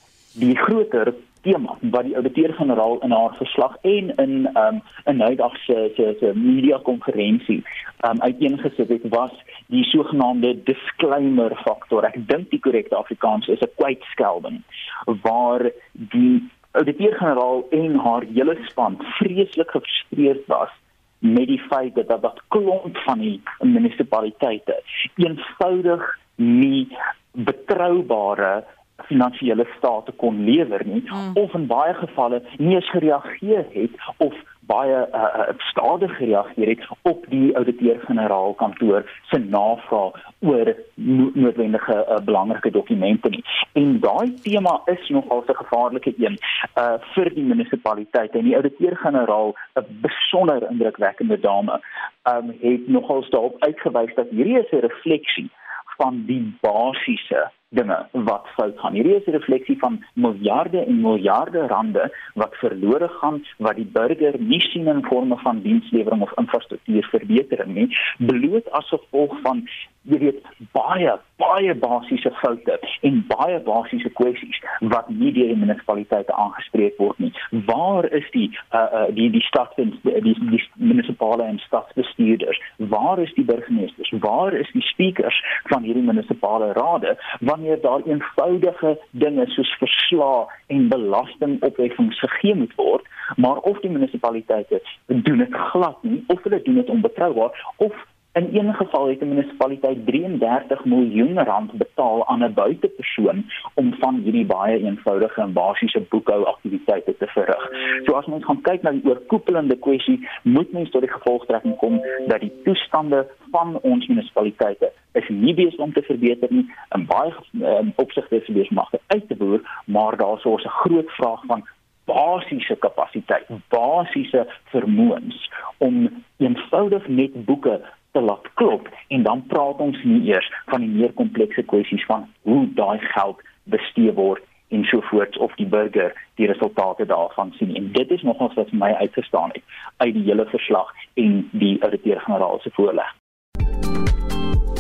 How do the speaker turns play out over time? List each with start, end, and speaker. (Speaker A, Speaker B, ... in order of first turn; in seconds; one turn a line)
Speaker A: 0.3-143.1